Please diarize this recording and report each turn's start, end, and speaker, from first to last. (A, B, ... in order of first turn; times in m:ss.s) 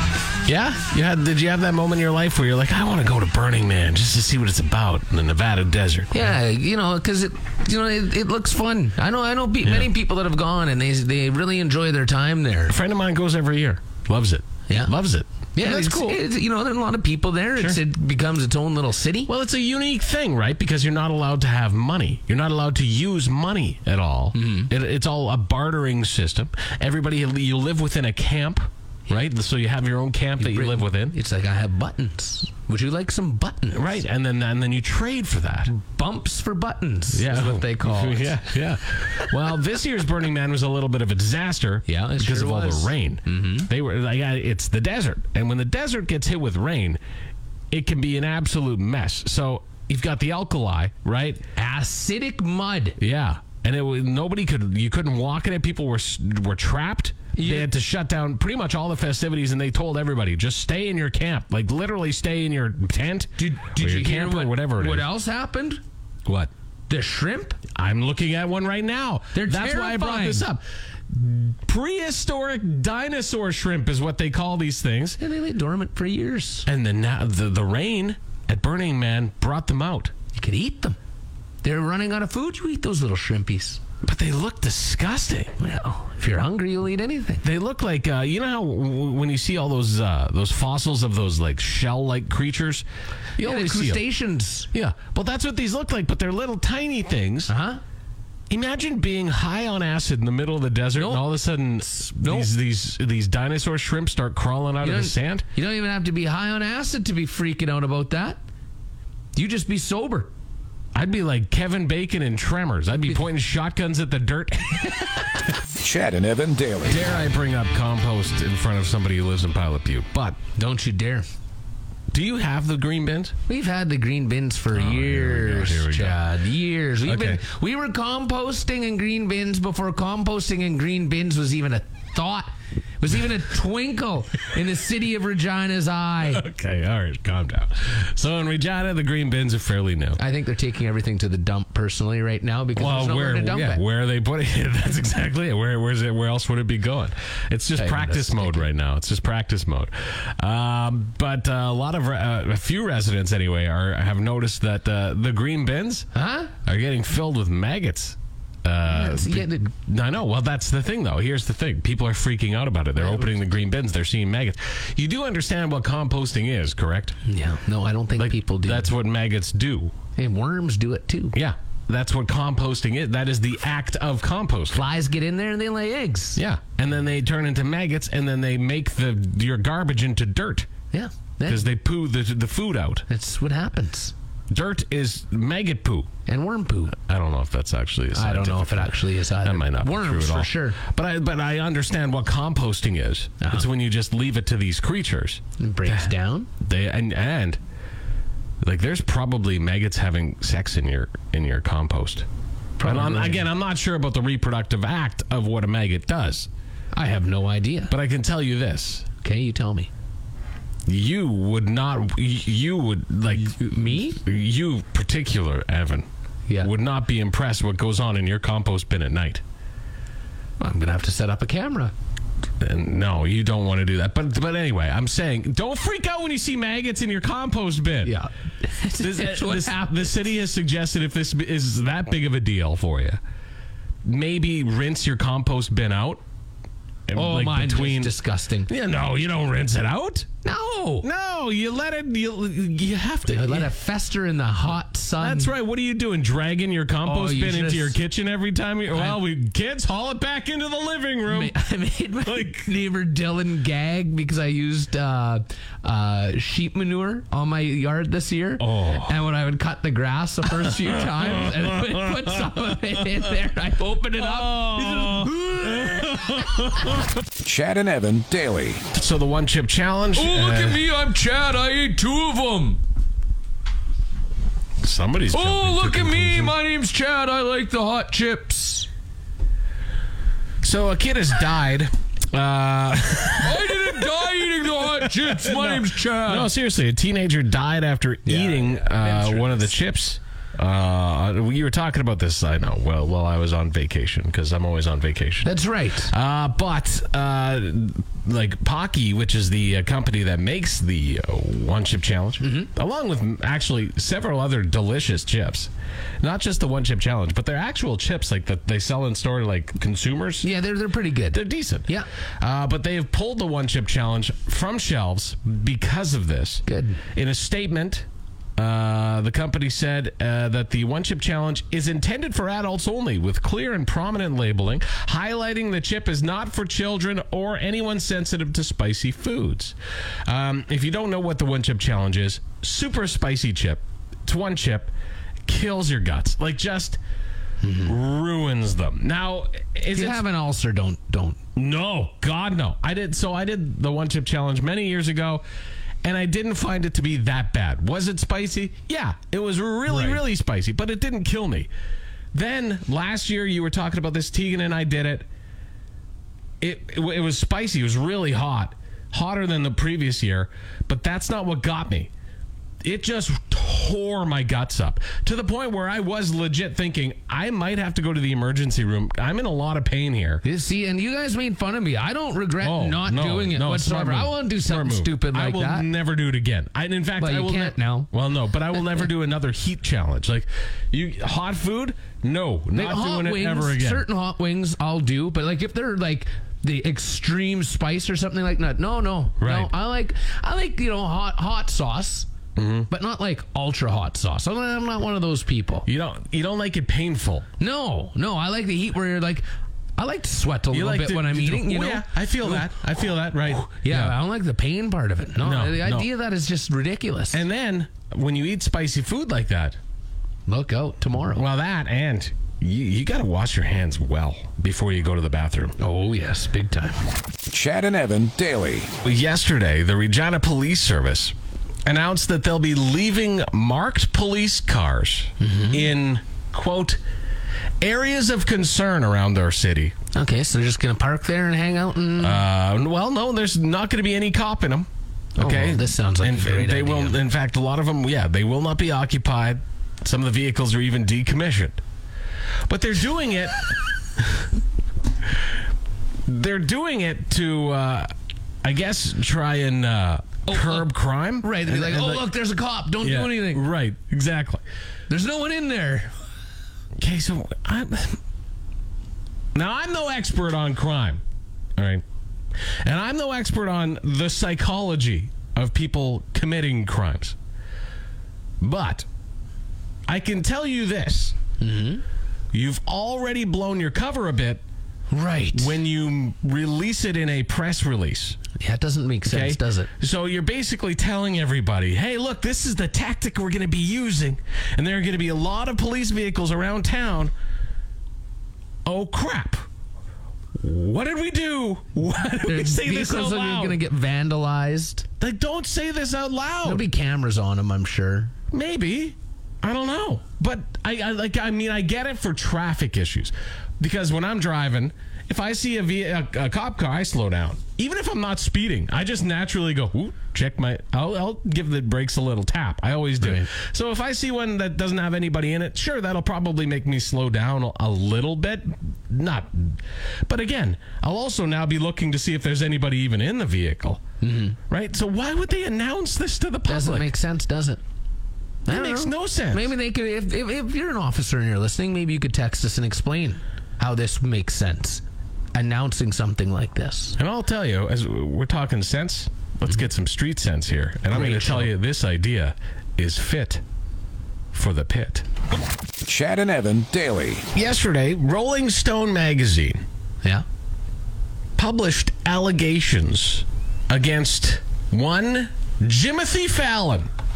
0:00.4-0:06.3 A
0:06.1-0:12.8 B
0:12.7-0:16.2 A
0:15.5-0:19.3 B
0:19.3-0:31.1 A
0:24.3-0:24.7 B
0:30.4-0:34.0 B
0:33.7-0:35.7 A
0:35.7-0:38.5 B
0:37.1-0:47.0 A
0:39.0-0:39.3 B
0:41.8-0:43.7 B
0:47.7-0:51.4 A
0:51.6-0:53.0 B
0:53.0-1:05.0 A
0:57.4-0:57.7 B
1:03.4-1:05.8 B
1:06.9-1:07.6 B
1:07.7-1:15.2 A
1:09.3-1:10.4 B
1:15.2-1:16.6 B
1:16.6-1:20.1 A
1:20.3-1:21.0 B
1:21.6-1:23.8 B
1:24.0-1:25.5 A
1:25.6-1:27.4 B
1:27.4-1:32.8 A
1:33.4-1:34.0 A
1:33.4-1:34.7 B
1:34.7-1:37.5 A
1:37.5-1:37.8 B
1:38.5-1:45.4 A
1:41.0-1:41.2 B
1:41.8-1:42.5 B
1:44.8-1:48.4 B
1:49.3-1:50.3 B
1:50.9-1:55.2 A
1:55.8-1:57.1 C
1:56.9-2:00.4 A
2:00.6-2:01.3 B
2:02.1-2:03.3 A
2:03.5-2:16.4 B
2:04.7-2:06.2 A
2:07.0-2:07.4 A
2:16.2-2:20.2 A
2:20.2-2:23.8 B
2:22.8-2:36.1 A
2:27.8-2:28.6 B
2:36.1-2:36.5 B
2:36.6-2:47.2 A
2:38.8-2:39.7 B
2:43.0-2:43.3 B
2:47.2-2:48.9 B
2:48.2-2:49.9 A
2:50.2-2:51.3 B
2:51.3-2:54.8 A
2:54.7-2:56.4 B
2:56.4-3:00.7 A
3:00.9-3:01.7 B
3:01.5-3:03.0 A
3:03.1-3:04.1 B
3:04.5-3:06.1 A
3:06.2-3:07.0 B
3:07.0-3:17.6 A
3:08.1-3:10.8 B
3:13.4-3:13.6 B
3:15.6-3:16.5 B
3:18.6-3:22.2 A
3:22.8-3:23.4 B
3:22.8-3:26.5 A
3:26.9-3:27.9 B
3:27.9-3:29.1 A
3:29.2-3:29.9 B
3:30.9-3:36.0 A
3:33.3-3:34.2 B
3:36.6-3:39.4 A
3:40.6-3:41.9 B
3:42.6-3:48.1 A
3:48.0-3:50.2 B
3:49.0-3:53.2 A
3:54.0-3:56.2 A
3:57.1-3:58.1 A
3:57.2-3:58.7 B
3:58.7-4:00.3 A
4:00.4-4:01.0 B
4:01.0-4:03.7 A
4:03.2-4:05.5 B
4:05.2-4:11.5 A
4:07.0-4:08.0 B
4:08.9-4:09.2 B
4:11.3-4:26.1 B
4:12.2-4:12.7 A
4:18.6-4:19.1 A
4:20.7-4:22.5 A
4:24.2-4:27.0 A
4:27.4-4:28.8 C
4:28.9-4:30.9 A
4:30.2-4:32.8 B
4:34.8-4:36.5 A
4:35.3-4:38.9 B
4:40.6-4:55.5 A
4:43.4-4:46.5 B
4:48.2-4:49.7 B
4:55.4-4:56.1 B
4:56.1-5:05.7 A
5:02.4-5:02.7 B
5:06.2-5:10.5 A
5:10.4-5:12.1 B
5:11.3-5:11.9 A
5:12.4-5:18.0 A
5:16.7-5:17.0 B
5:18.6-5:29.7 A
5:30.2-5:34.9 A
5:35.5-5:37.0 A
5:37.6-5:37.9 B
5:37.8-5:40.2 A
5:39.9-5:41.4 B
5:41.6-5:45.4 A
5:46.0-5:51.7 A
5:49.9-5:50.2 B
5:52.3-5:55.2 A
5:56.6-6:02.1 A
6:02.8-6:10.4 A
6:10.4-6:15.8 B
6:12.6-6:24.0 A
6:17.2-6:18.1 B
6:22.7-6:32.3 B
6:29.4-6:29.7 A
6:32.6-6:32.9 A
6:32.9-6:35.9 B
6:35.9-6:37.5 A
6:37.6-6:39.4 B
6:40.0-6:42.7 B
6:40.7-6:44.2 A
6:43.5-6:47.4 B
6:45.4-6:46.1 A
6:47.3-6:49.8 A
6:50.5-6:51.4 B
6:51.3-6:55.8 A
6:55.8-6:57.0 B
6:57.5-6:58.9 C
6:59.0-7:01.3 A
7:01.8-7:07.0 A
7:05.4-7:05.8 B
7:07.8-7:09.9 A
7:10.1-7:12.4 B
7:12.2-7:21.8 A
7:15.4-7:17.2 B
7:22.7-7:24.4 A
7:26.3-7:28.1 A
7:28.6-7:32.3 A
7:30.5-7:30.9 B
7:31.4-7:33.6 B
7:33.0-7:34.6 A
7:35.1-7:36.1 B
7:37.0-7:38.2 A
7:39.5-7:41.2 A
7:41.8-7:42.0 A
7:42.8-7:47.4 A
7:48.6-7:49.0 A
7:50.1-7:51.4 A
7:51.6-7:52.0 B
7:52.5-7:54.6 A
7:55.1-7:55.8 B
7:55.5-7:58.4 A
7:58.6-7:59.9 B
7:59.2-8:07.3 A
8:08.8-8:09.6 A
8:10.6-8:13.8 A
8:12.4-8:15.1 B
8:15.2-8:16.8 A
8:16.6-8:18.3 B
8:18.5-8:44.0 A
8:33.2-8:33.5 B
8:44.2-8:44.6 B
8:44.7-8:47.1 A
8:46.7-8:47.8 B
8:48.6-8:55.0 B
8:48.7-8:49.7 A
8:55.5-8:57.2 B
8:57.2-9:03.6 A
9:01.1-9:01.7 B
9:04.5-9:05.2 A
9:06.0-9:07.4 C
9:07.5-9:09.8 A
9:11.6-9:17.1 A